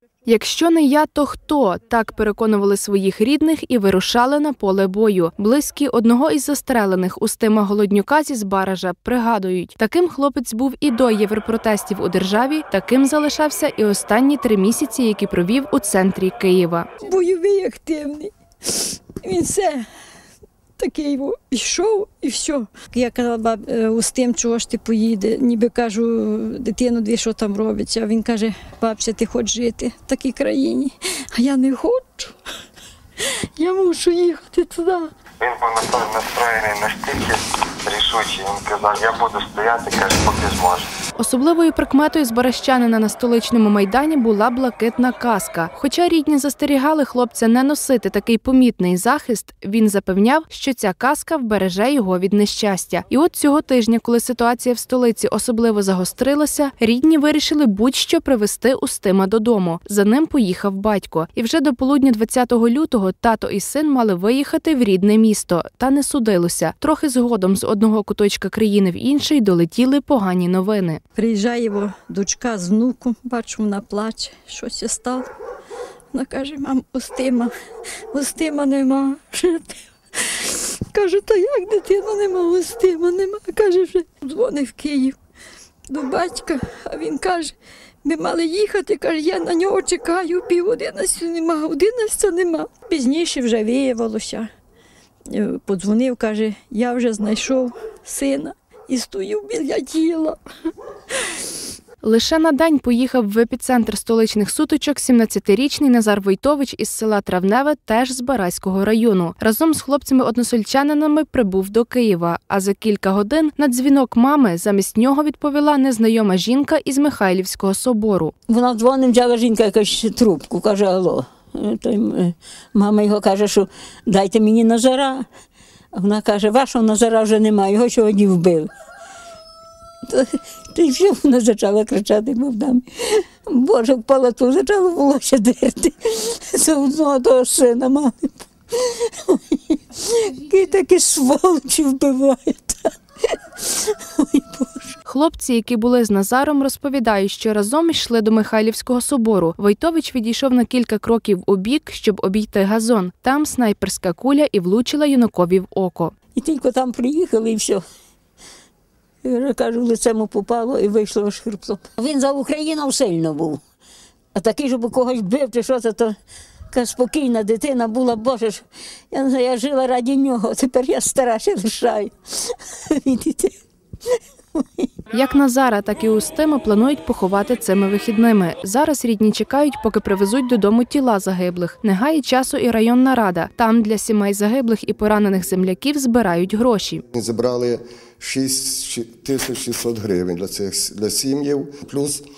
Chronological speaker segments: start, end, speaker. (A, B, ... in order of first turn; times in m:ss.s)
0:00.3-0:16.9 A
0:17.0-0:19.8 B
0:20.8-0:32.3 B
0:33.6-0:35.1 B
0:38.7-0:40.8 C
0:41.2-1:11.0 A
1:11.2-1:15.3 B
1:16.1-1:17.5 B
1:18.1-1:25.2 B
1:25.9-1:34.5 B
1:35.3-1:40.4 B
1:42.0-1:58.3 A
1:58.5-2:05.3 D
2:05.9-2:08.7 D
2:10.0-2:24.9 D
2:25.0-2:36.1 A
2:36.3-2:37.8 D
2:39.2-2:43.6 D
2:44.3-2:46.1 D
2:46.7-2:53.6 D
2:54.1-2:54.9 D
2:55.1-3:07.0 A
3:07.1-3:12.2 E